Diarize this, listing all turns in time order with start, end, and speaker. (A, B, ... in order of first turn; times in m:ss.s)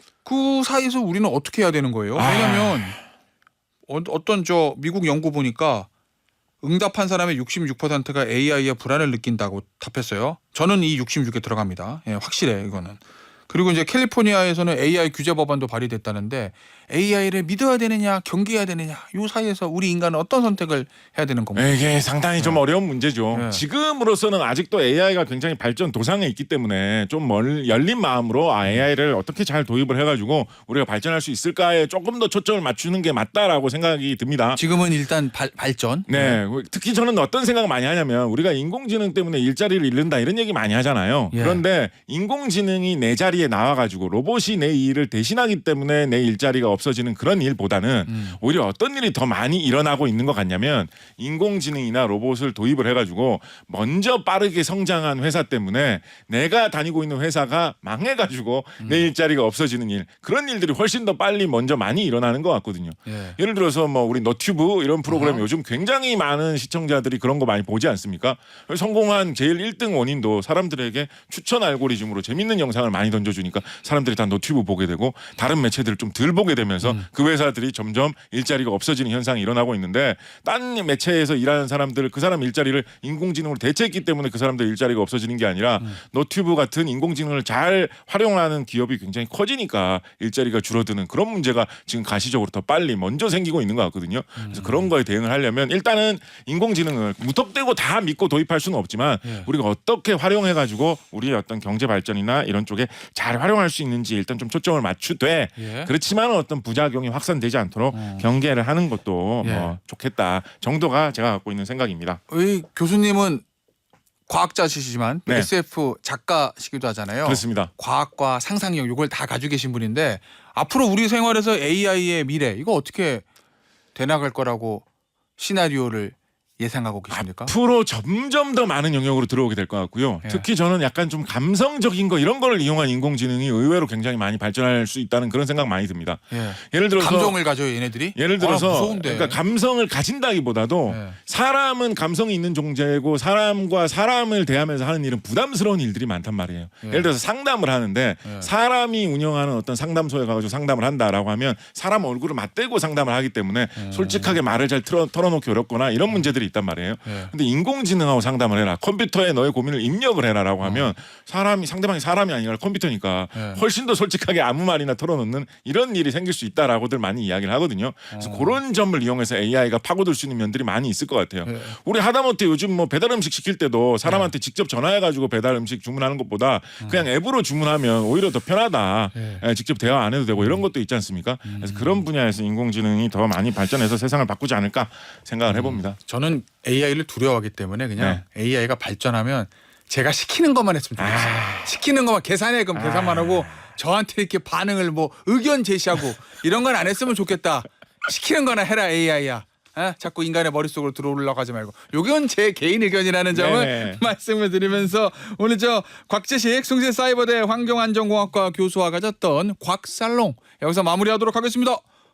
0:00.2-0:03.0 A
0:02.1-0:03.0 B
0:03.9-0:05.9 A
0:06.6-0:21.7 A
0:21.5-0:34.6 B
0:23.3-0:23.6 A
0:34.5-0:36.4 A
0:36.1-1:52.2 B
0:41.3-0:41.6 A
0:48.1-0:48.4 A
0:58.8-0:59.0 A
1:03.1-1:03.4 A
1:05.1-1:05.4 A
1:34.4-1:34.9 A
1:45.6-1:45.9 A
1:47.9-1:48.2 A
1:49.4-1:49.7 A
1:52.3-1:53.4 A
1:54.3-2:03.2 A
1:57.2-1:57.7 B
2:03.9-2:04.8 A
2:05.4-2:07.5 A
2:07.1-2:17.4 B
2:16.3-2:19.4 A
2:18.1-3:06.0 B
2:20.9-2:21.2 A
2:26.8-2:27.1 A
2:28.2-2:28.5 A
2:33.7-2:34.4 A
2:37.0-2:37.3 A
2:40.6-2:40.9 A
2:43.3-2:43.6 A
2:48.1-2:48.6 A
2:51.4-2:51.8 A
2:54.0-2:54.3 A
2:56.8-2:57.0 A
2:59.1-2:59.4 A
3:01.4-3:02.0 A
3:05.5-3:31.8 A
3:11.0-3:11.8 B
3:12.7-3:13.6 B
3:23.3-3:24.0 B